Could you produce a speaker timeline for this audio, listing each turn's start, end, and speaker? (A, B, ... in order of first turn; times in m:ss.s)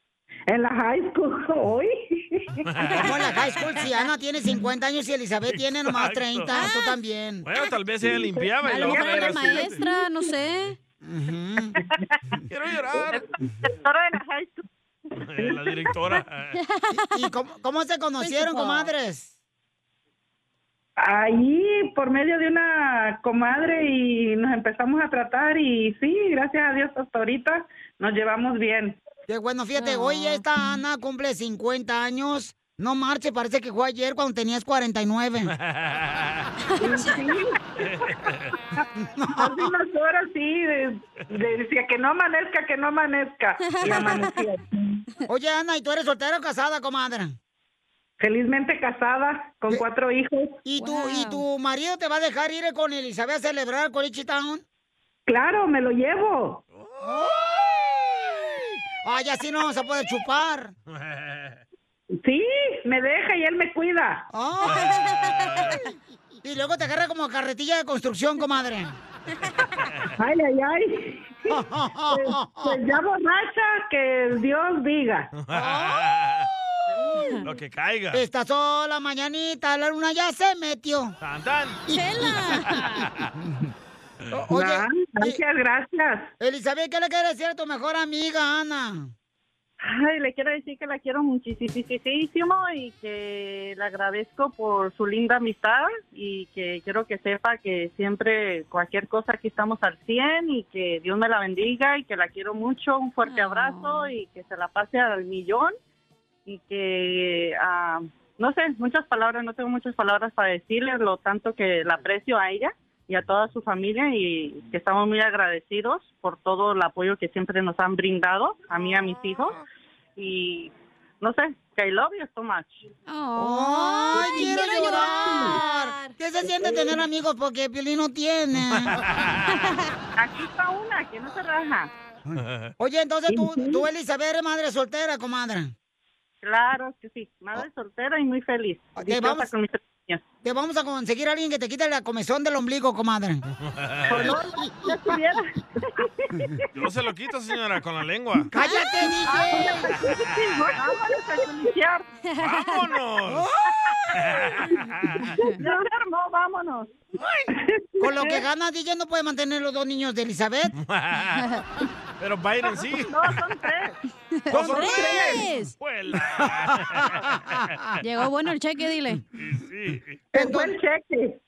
0:00.5-0:02.6 A
0:02.7-0:03.5 B
0:03.0-0:07.5 C
0:05.5-0:06.5 B
0:06.5-0:07.0 D
0:07.4-0:09.8 B
0:08.6-0:10.8 D
0:11.0-0:11.8 C
0:12.5-0:13.2 B
0:13.1-0:14.6 E
0:15.2-0:16.6 B
0:16.6-0:17.2 D
0:16.9-0:19.3 C
0:18.2-0:18.9 D
0:21.0-0:29.0 A
0:29.3-0:35.5 C
0:29.8-0:30.4 D
0:35.6-0:36.5 B
0:36.7-0:37.3 D
0:36.8-0:37.9 A
0:37.8-0:38.5 B
0:38.8-0:45.0 A
0:39.0-0:39.7 C
0:43.6-0:44.4 D
0:45.3-0:47.4 C
0:48.2-0:50.6 A
0:50.6-0:54.6 C
0:50.8-0:51.4 D
0:55.3-0:56.6 A
0:57.0-0:57.4 C
0:59.0-1:00.7 C
1:00.9-1:01.6 B
1:02.2-1:04.3 A
1:04.3-1:04.9 C
1:04.8-1:05.7 B
1:04.8-1:05.8 D
1:06.4-1:09.0 C
1:10.2-1:15.3 A
1:11.5-1:12.8 C
1:15.3-1:16.5 B
1:17.4-1:18.2 B
1:18.1-1:21.2 C
1:21.2-1:21.8 B
1:21.9-1:23.1 D
1:22.0-1:22.4 C
1:23.4-1:23.7 C
1:24.3-1:25.4 C
1:24.5-1:26.3 A
1:26.4-1:29.1 C
1:29.8-1:45.8 E
1:43.2-1:44.1 D
1:46.5-1:59.6 E
2:00.2-2:02.8 E
2:03.1-2:06.2 D
2:03.4-2:09.0 C
2:06.6-2:07.0 A
2:08.7-2:09.5 B
2:10.2-2:11.9 E
2:12.3-2:15.7 C
2:12.4-2:12.7 B
2:13.3-2:13.9 A
2:16.4-2:20.2 E
2:19.0-2:19.5 C
2:20.4-2:23.4 C
2:23.6-2:24.4 B
2:24.2-2:24.9 C
2:24.2-2:25.3 A
2:26.0-2:26.3 A
2:26.8-2:28.5 B
2:28.5-2:30.0 C
2:28.6-2:29.1 D
2:30.8-2:32.0 E
2:31.0-2:31.5 A
2:32.3-2:32.9 D
2:32.4-2:33.5 B
2:34.1-2:35.3 B
2:35.6-2:36.9 E
2:37.6-2:38.4 A
2:38.0-2:40.7 C
2:40.8-2:41.6 B
2:41.4-2:41.6 D
2:42.2-2:43.3 B
2:43.1-2:43.9 E
2:44.4-2:45.8 D
2:44.5-2:47.6 B
2:44.5-2:45.3 C
2:46.8-2:47.9 C
2:48.0-2:49.2 D
2:49.4-2:50.2 B
2:50.3-2:51.4 A
2:50.4-2:50.8 C